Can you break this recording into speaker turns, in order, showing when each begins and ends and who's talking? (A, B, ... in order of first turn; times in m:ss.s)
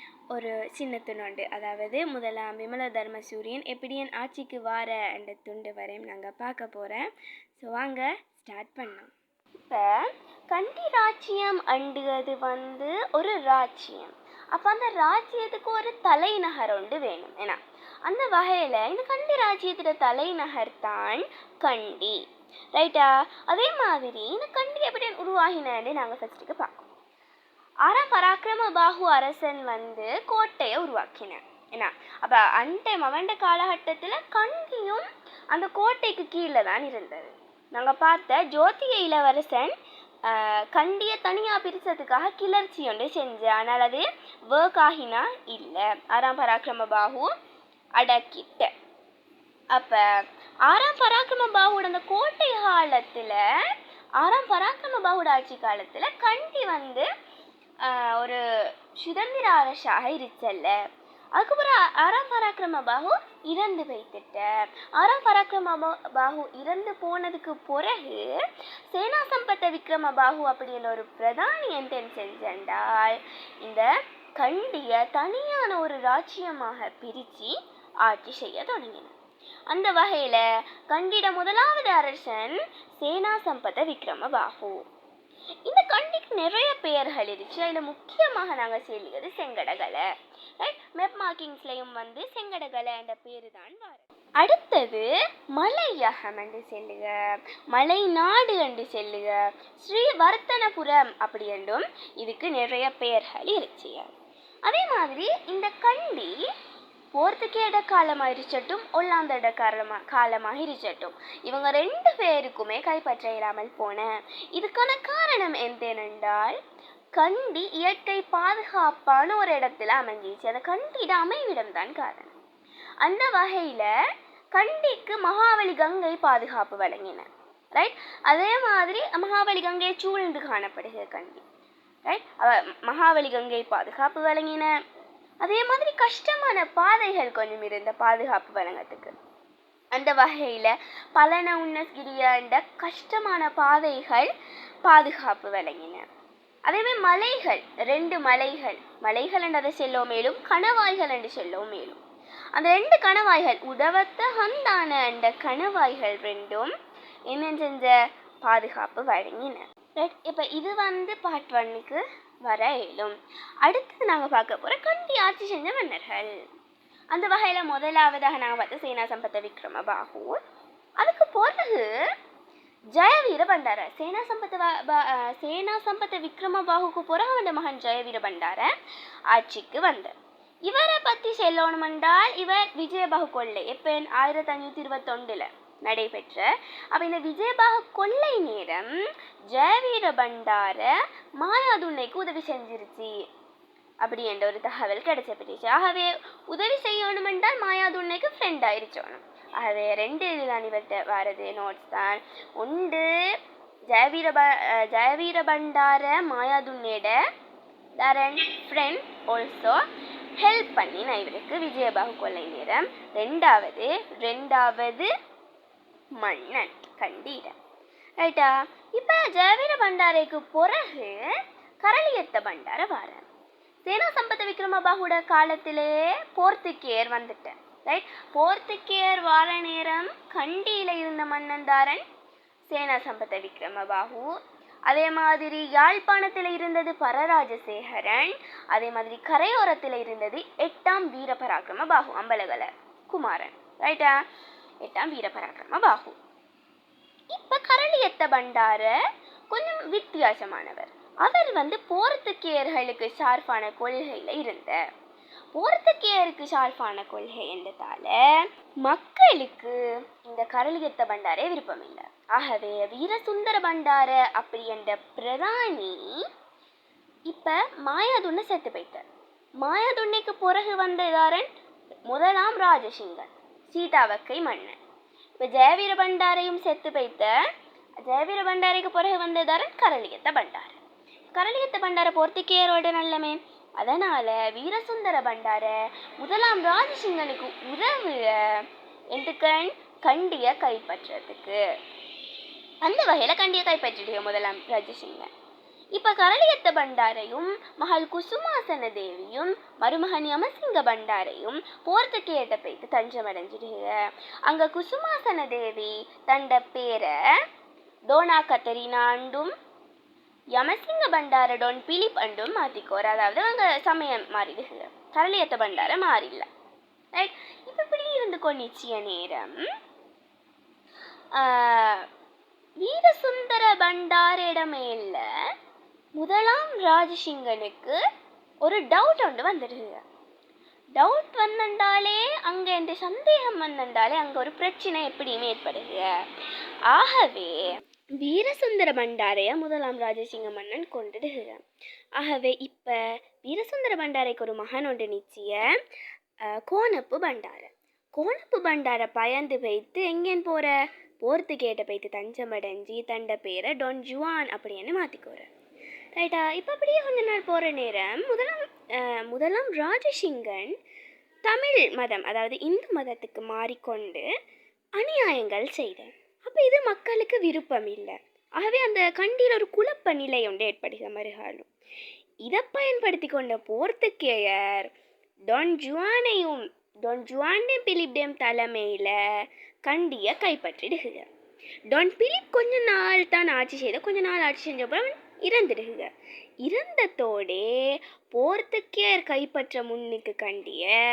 0:00.3-0:22.2 A
0:22.7-0:26.9 A
0:27.8-0:47.3 A
0:48.0-0:48.7 A
0:49.7-0:53.4 A
0:54.2-0:57.0 A
0:57.8-0:58.4 A
0:59.0-1:00.8 A
1:01.4-1:08.3 A
1:08.9-1:19.1 A
1:19.7-1:24.9 A
1:25.6-1:30.1 A
1:30.6-1:37.2 A
1:37.7-1:46.3 A
1:47.1-1:56.6 A
1:57.1-2:02.4 A
2:03.0-2:03.9 A
2:04.5-2:11.4 A
2:12.0-2:14.7 A
2:15.4-2:19.1 A
2:19.9-2:24.3 A
2:24.8-2:26.1 A
2:26.7-2:32.0 A
2:32.5-2:36.7 A
2:37.3-2:46.4 A
2:47.1-2:50.4 A
2:51.0-2:51.9 A
2:52.9-2:58.7 A
2:59.3-3:00.1 A
3:00.6-3:08.9 A
3:09.5-3:13.1 A
3:14.0-3:23.1 A
3:23.9-3:27.2 A
3:28.0-3:29.8 A
3:30.4-3:35.1 A
3:36.2-3:37.5 A
3:38.2-3:41.2 A
3:41.8-3:43.3 A
3:43.8-3:52.0 A
3:52.7-3:54.3 A
3:54.9-4:04.1 A
4:04.8-4:06.2 A
4:07.3-4:08.9 A
4:09.5-4:14.8 A
4:15.5-4:18.2 A
4:18.8-4:26.1 A
4:27.3-4:29.0 A
4:29.6-4:31.5 A
4:32.1-4:34.8 A
4:35.4-4:37.3 A
4:38.0-4:40.8 A
4:41.3-4:51.6 A
4:52.8-4:55.3 A
4:55.9-5:07.1 A
5:08.1-5:09.5 A
5:10.5-5:16.5 A
5:17.1-5:19.6 A
5:21.3-5:22.0 A
5:22.8-5:25.2 A
5:26.2-5:28.0 A
5:28.6-5:30.0 A
5:31.0-5:36.1 A
5:36.9-5:37.6 A
5:38.2-5:41.6 A
5:42.2-5:45.6 A
5:46.7-5:55.5 A
5:56.2-6:00.7 A
6:01.4-6:04.2 A
6:05.0-6:11.7 A
6:12.4-6:14.9 A
6:15.5-6:19.2 A
6:19.8-6:21.3 A
6:21.9-6:26.1 A
6:26.6-6:27.7 A
6:28.3-6:30.9 A